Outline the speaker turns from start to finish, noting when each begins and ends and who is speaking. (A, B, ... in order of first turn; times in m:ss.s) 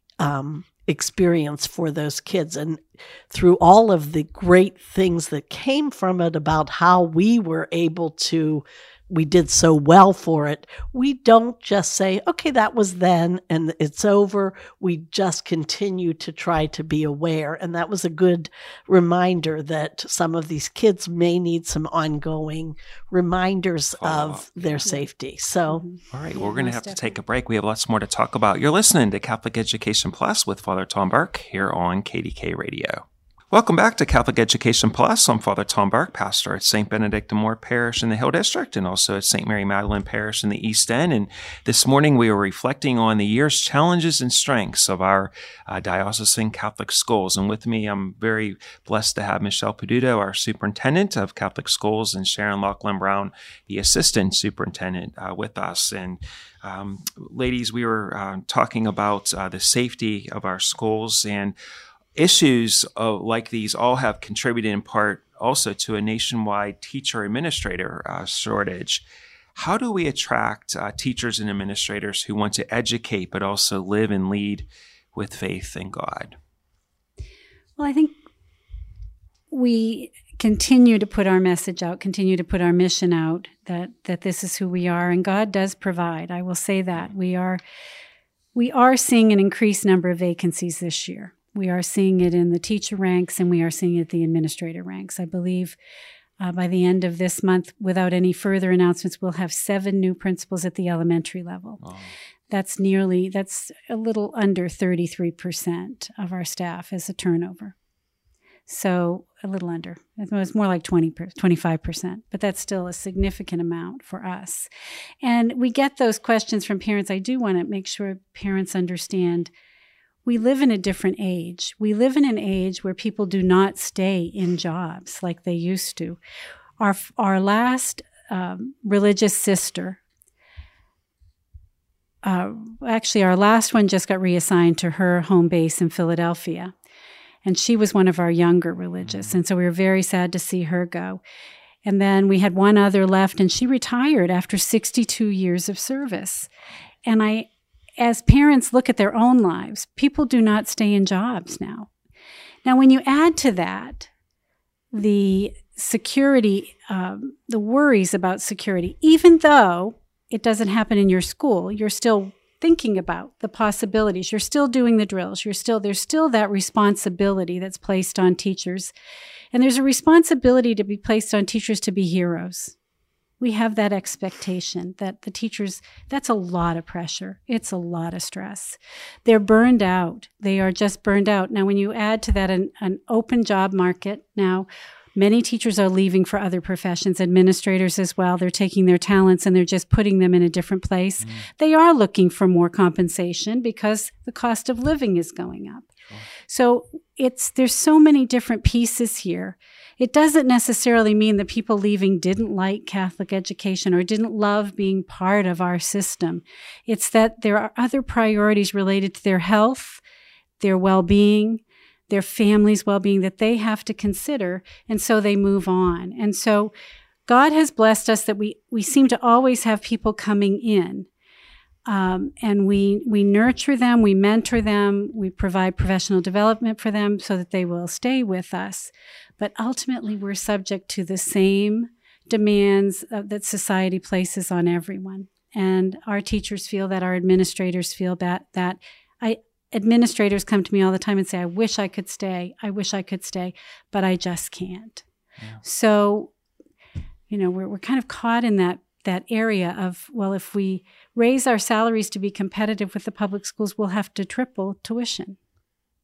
0:00.2-0:25.8 A
0:24.0-0:24.8 B
0:25.7-0:27.2 C
0:26.1-1:01.5 B
1:02.2-1:09.0 B
1:09.5-1:16.4 B
1:17.8-1:18.2 C
1:19.5-1:27.6 C
1:28.5-1:35.8 C
1:36.4-1:41.8 C
1:41.8-1:42.1 B
1:42.5-1:47.7 C
1:48.7-1:54.7 C
1:55.2-1:59.5 C
2:00.2-2:06.2 C
2:06.8-2:10.0 C
2:12.2-2:16.7 C
2:17.4-2:21.2 C
2:19.0-2:19.4 B
2:21.8-2:26.5 C
2:27.0-2:31.9 C
2:32.6-2:34.1 C
2:34.9-2:48.9 C
2:49.5-2:52.7 C
2:53.4-3:15.9 C
3:11.2-3:11.5 B
3:16.5-3:30.0 C
3:30.6-3:36.7 C
3:37.3-3:41.1 C
3:41.8-4:05.0 C
4:05.6-4:06.3 C
4:07.3-4:15.4 C